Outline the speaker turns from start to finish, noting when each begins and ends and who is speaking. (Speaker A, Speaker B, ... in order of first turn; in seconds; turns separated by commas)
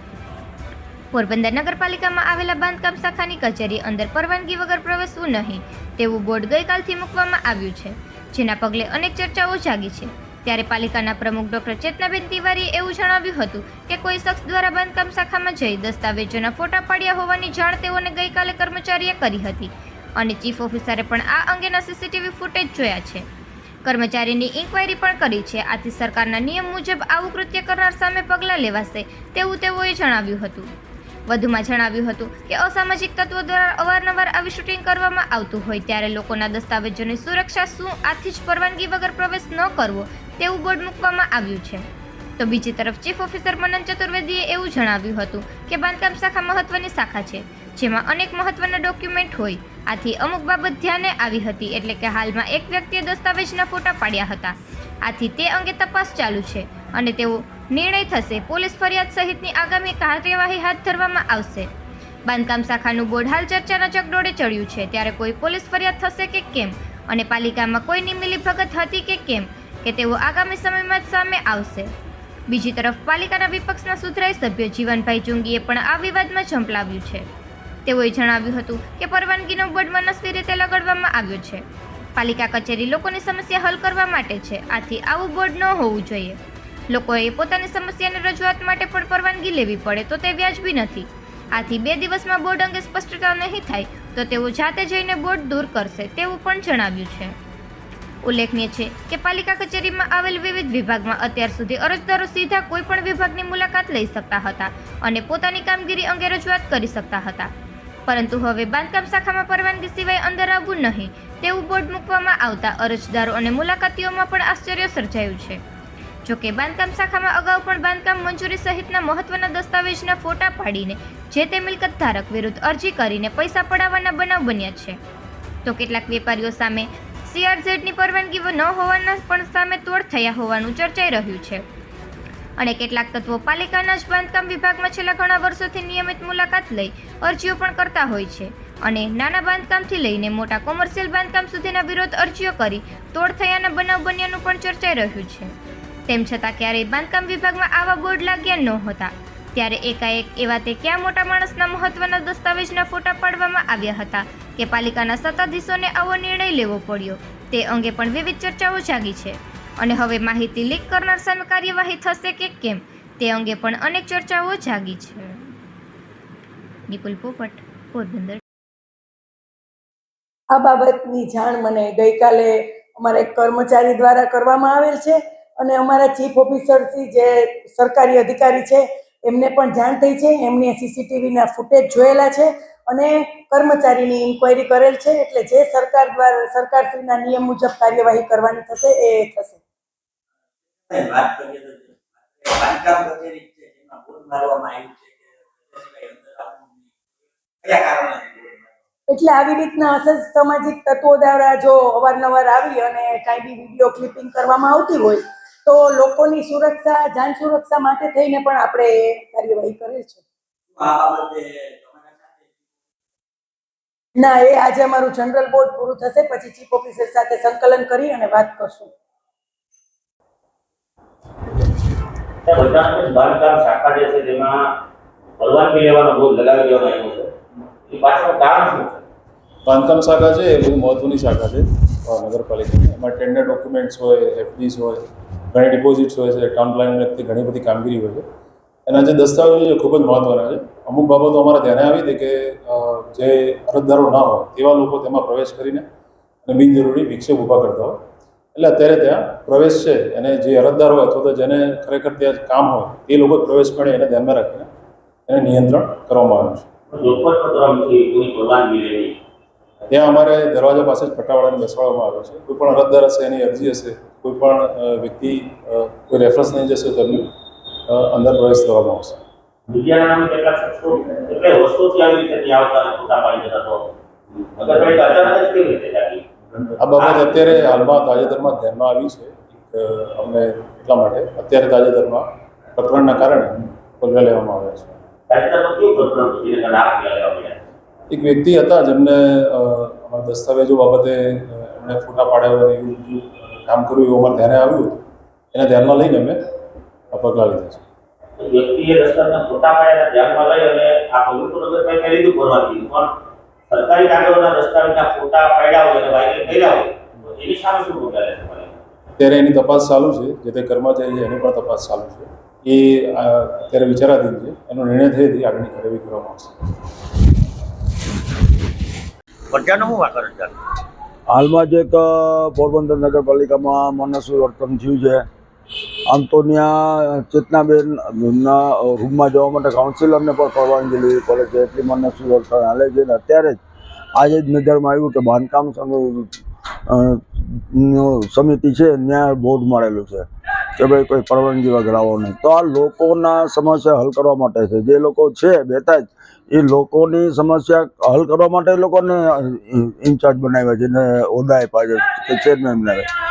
Speaker A: 1.1-23.3, Speaker A: 23.9-30.7, Speaker A: 31.3-41.9, Speaker A: 42.4-61.7, Speaker A: 62.3-71.9, Speaker A: 72.5-77.3, Speaker A: 77.9-81.6, Speaker A: 82.2-86.4, Speaker A: 86.9-97.3, Speaker A: 98.2-107.5, Speaker A: 108.1-115.6, Speaker A: 116.2-125.0, Speaker A: 125.7-131.6, Speaker A: 132.6-145.6, Speaker A: 146.1-165.5, Speaker A: 166.9-168.4, Speaker B: 170.5-189.6, Speaker C: 190.9-196.8, Speaker C: 197.6-198.6, Speaker B: 199.1-210.2, Speaker C: 210.8-212.5, Speaker B: 214.2-218.9, Speaker D: 222.4-224.7, Speaker D: 225.4-227.3, Speaker D: 227.9-229.1, Speaker E: 229.7-238.2, Speaker E: 238.9-245.9, Speaker E: 246.4-248.0, Speaker E: 248.6-254.7, Speaker E: 255.3-256.7, Speaker D: 256.9-259.2, Speaker E: 259.9-267.3, Speaker E: 267.9-269.2, Speaker D: 269.7-273.9, Speaker D: 274.6-276.2, Speaker E: 276.8-284.9, Speaker D: 277.0-277.4, Speaker D: 285.3-287.6, Speaker E: 288.1-296.4, Speaker E: 297.1-297.8, Speaker D: 298.4-303.1, Speaker D: 303.7-308.8, Speaker E: 309.2-316.7, Speaker D: 319.5-320.6, Speaker F: 321.3-325.3, Speaker F: 326.1-333.6, Speaker F: 334.1-336.3, Speaker F: 336.9-353.1